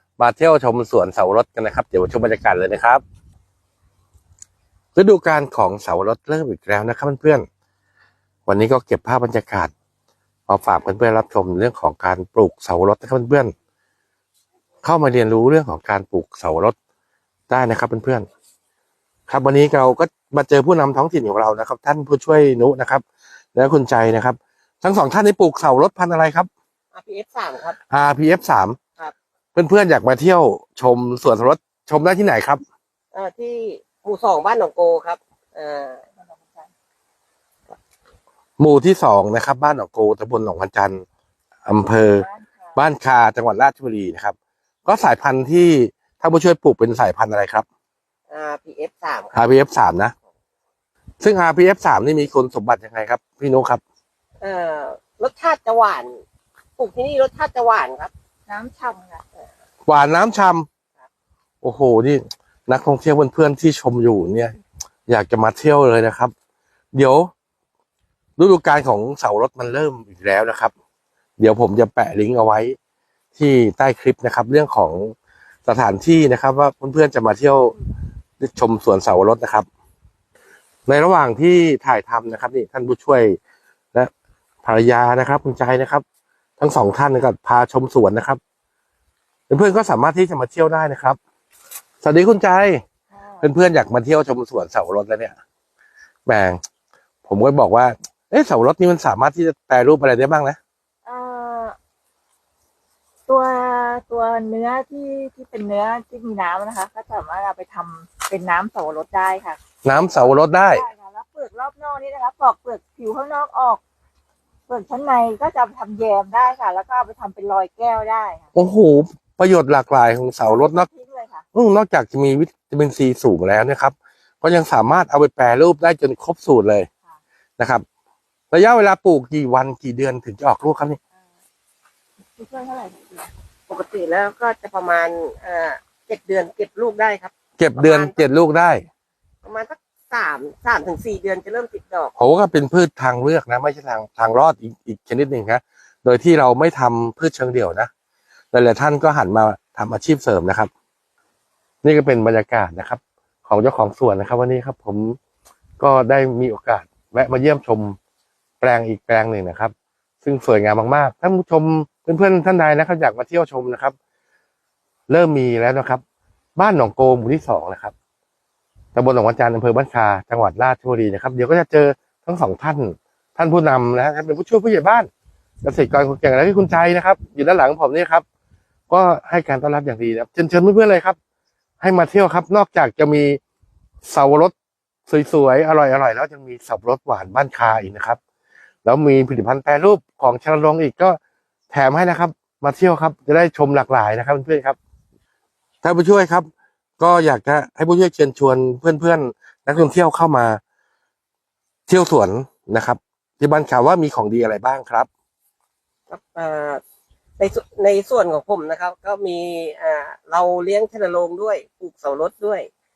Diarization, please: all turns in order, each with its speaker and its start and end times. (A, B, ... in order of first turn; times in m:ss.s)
0:00.2-0:03.0 A
0:04.9-0:07.4 A
0:08.4-0:09.7 A
0:10.5-0:13.5 A
0:14.8-0:16.7 A
0:17.5-0:18.3 A
0:19.3-0:23.0 A
0:23.5-0:26.5 A
0:26.9-0:27.8 B
0:27.9-0:28.8 A
0:29.5-0:32.6 A
0:33.1-0:36.0 B
0:36.2-0:36.7 C
0:38.6-0:41.0 A
0:41.6-0:44.3 A
0:41.8-0:42.8 C
0:44.8-0:47.6 A
0:48.3-0:49.5 B
0:49.3-0:50.1 A
0:51.2-0:53.8 A
0:54.4-0:56.2 B
0:56.8-0:58.1 B
0:58.5-0:59.2 C
0:59.9-1:00.7 A
1:01.6-1:04.5 A
1:05.1-1:06.3 A
1:06.9-1:07.3 A
1:08.4-1:10.7 A
1:11.4-1:12.8 A
1:13.3-1:15.1 A
1:15.6-1:17.7 A
1:18.4-1:19.7 A
1:20.9-1:23.4 A
1:24.6-1:26.0 A
1:26.6-1:28.4 A
1:29.5-1:31.2 A
1:32.0-1:32.8 A
1:33.1-1:33.5 C
1:33.4-1:35.4 A
1:36.2-1:36.6 A
1:37.2-1:40.6 A
1:41.0-1:41.8 C
1:43.3-1:53.8 C
1:49.8-1:50.8 A
1:54.7-1:58.5 C
1:58.5-2:00.9 A
2:00.4-2:01.4 C
2:01.5-2:06.9 A
2:07.6-2:07.8 A
2:08.5-2:11.0 A
2:12.4-2:13.3 C
2:13.7-2:18.3 B
2:17.6-2:18.8 A
2:19.4-2:22.1 B
2:22.2-2:27.9 A
2:28.5-2:30.7 A
2:31.8-2:35.2 A
2:35.8-2:38.0 A
2:38.6-2:43.9 A
2:45.1-2:46.0 A
2:46.6-2:47.9 A
2:48.9-2:55.1 A
2:55.6-2:58.2 A
2:58.9-3:01.2 A
3:01.8-3:03.4 A
3:04.0-3:04.5 A
3:05.1-3:08.2 A
3:08.8-3:11.2 A
3:11.7-3:14.8 A
3:15.8-3:20.6 A
3:21.9-3:25.1 A
3:26.1-3:26.8 B
3:27.4-3:32.7 B